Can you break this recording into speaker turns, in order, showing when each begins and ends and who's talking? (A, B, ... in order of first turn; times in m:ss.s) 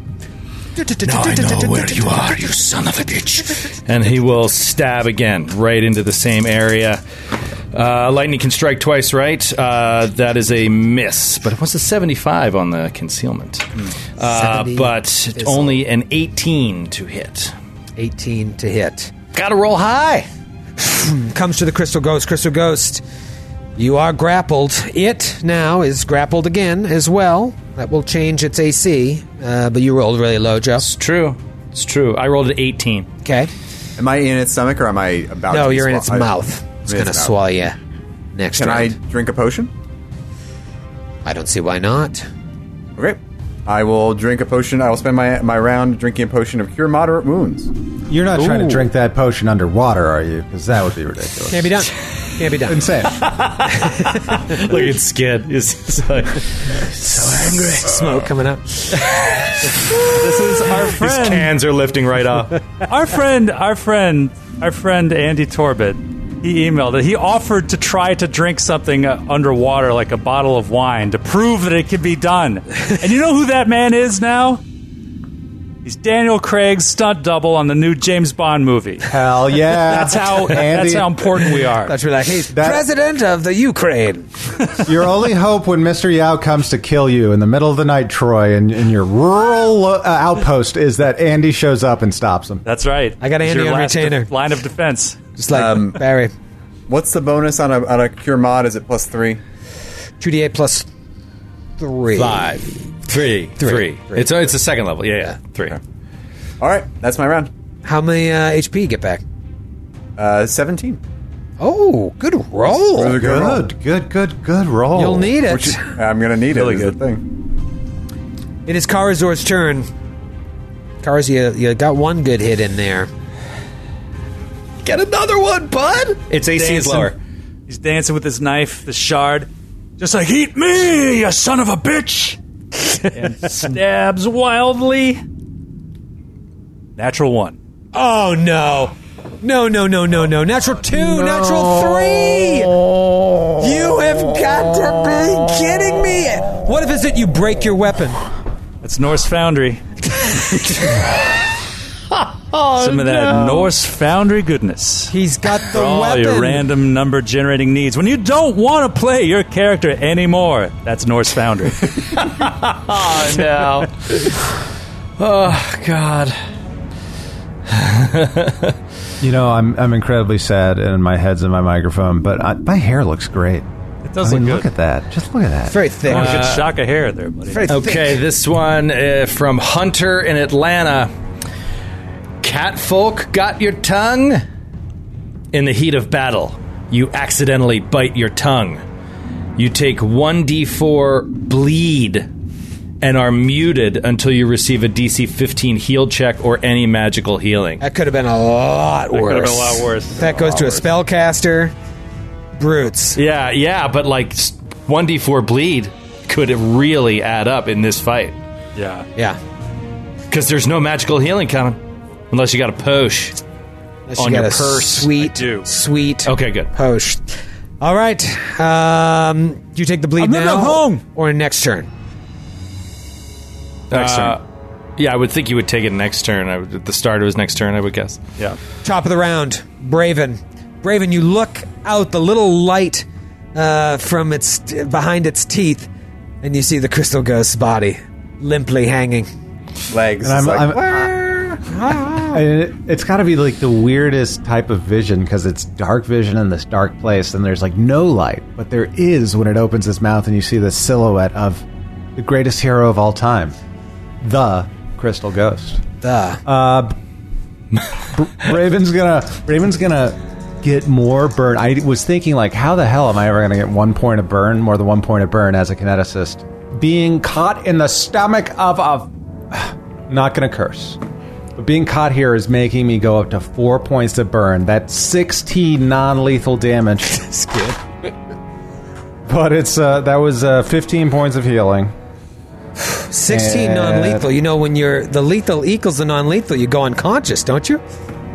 0:00.7-0:02.5 A
0:01.0-0:07.0 B
0:07.7-0:17.6 B
0:14.2-0:15.8 A
0:18.0-0:19.1 A
0:19.3-0:20.3 B
0:20.8-0:23.0 A
0:23.8-0:30.9 A
0:30.8-0:33.1 B
0:33.2-0:33.5 A
0:34.0-0:36.3 C
0:35.5-0:37.8 A
0:36.8-0:37.3 C
0:38.3-0:39.0 A
0:38.6-0:39.7 C
0:41.2-0:42.3 A
0:43.0-0:47.7 C
0:48.1-0:51.9 D
0:51.5-0:52.8 A
0:52.6-0:53.2 D
0:53.2-0:58.3 B
0:53.8-0:54.7 A
0:57.0-0:59.0 A
0:58.9-1:02.7 B
1:00.2-1:01.5 E
1:02.7-1:14.6 E
1:15.8-1:19.1 E
1:19.1-1:21.3 D
1:19.7-1:22.0 E
1:21.8-1:24.4 A
1:22.5-1:22.8 D
1:24.8-1:32.6 D
1:32.6-1:35.2 E
1:33.2-1:34.3 A
1:35.4-1:36.3 A
1:35.5-1:36.0 C
1:36.9-1:39.4 C
1:40.2-1:40.9 A
1:41.8-1:42.9 A
1:43.1-1:45.8 B
1:43.6-1:44.6 A
1:46.6-1:47.5 C
1:47.8-1:49.2 A
1:50.2-1:51.0 C
1:51.6-1:53.2 A
1:52.9-1:53.6 C
1:53.1-1:55.4 D
1:54.9-1:55.8 A
1:55.5-1:57.2 C
1:56.5-1:56.9 E
1:58.6-1:59.9 A
2:01.0-2:03.1 A
2:04.8-2:07.2 B
2:06.5-2:07.1 E
2:07.7-2:12.4 E
2:13.1-2:15.2 E
2:17.0-2:17.6 E
2:17.9-2:22.9 A
2:23.6-2:28.3 A
2:28.8-2:29.8 E
2:30.1-2:31.0 A
2:32.1-2:33.7 B
2:32.8-2:35.1 E
2:35.1-2:36.6 A
2:35.7-2:41.9 E
2:42.2-2:44.5 B
2:45.2-2:46.4 B
2:47.7-2:48.8 B
2:49.2-2:53.7 D
2:54.1-2:54.7 E
2:54.2-2:55.9 D
2:55.7-2:56.6 A
2:56.1-2:57.7 E
2:56.1-2:56.8 B
2:57.5-2:58.2 A
2:57.7-3:01.1 B
3:02.4-3:04.4 B
3:05.5-3:08.8 B
3:09.6-3:12.3 B
3:13.0-3:17.8 B
3:17.8-3:21.7 A
3:19.1-3:20.8 E
3:22.6-3:23.2 A
3:23.2-3:28.4 B
3:28.7-3:29.1 E
3:30.3-3:33.4 B
3:34.1-3:41.9 A
3:34.2-3:35.2 B
3:35.2-3:35.7 E
3:36.3-3:36.7 B
3:40.2-3:41.0 E
3:43.9-3:44.4 B
3:43.9-3:44.4 A
3:45.0-3:48.2 B
3:48.8-3:55.9 A
3:56.4-3:59.3 A
3:59.9-4:01.6 C
4:00.2-4:01.2 D
4:01.6-4:02.4 A
4:02.3-4:13.6 D
4:14.2-4:15.8 D
4:16.0-4:16.4 A
4:16.4-4:17.0 D
4:18.1-4:31.0 D
4:31.6-4:37.2 D
4:37.1-4:37.8 A
4:39.3-4:41.9 D
4:42.8-4:47.8 A
4:43.3-4:44.3 D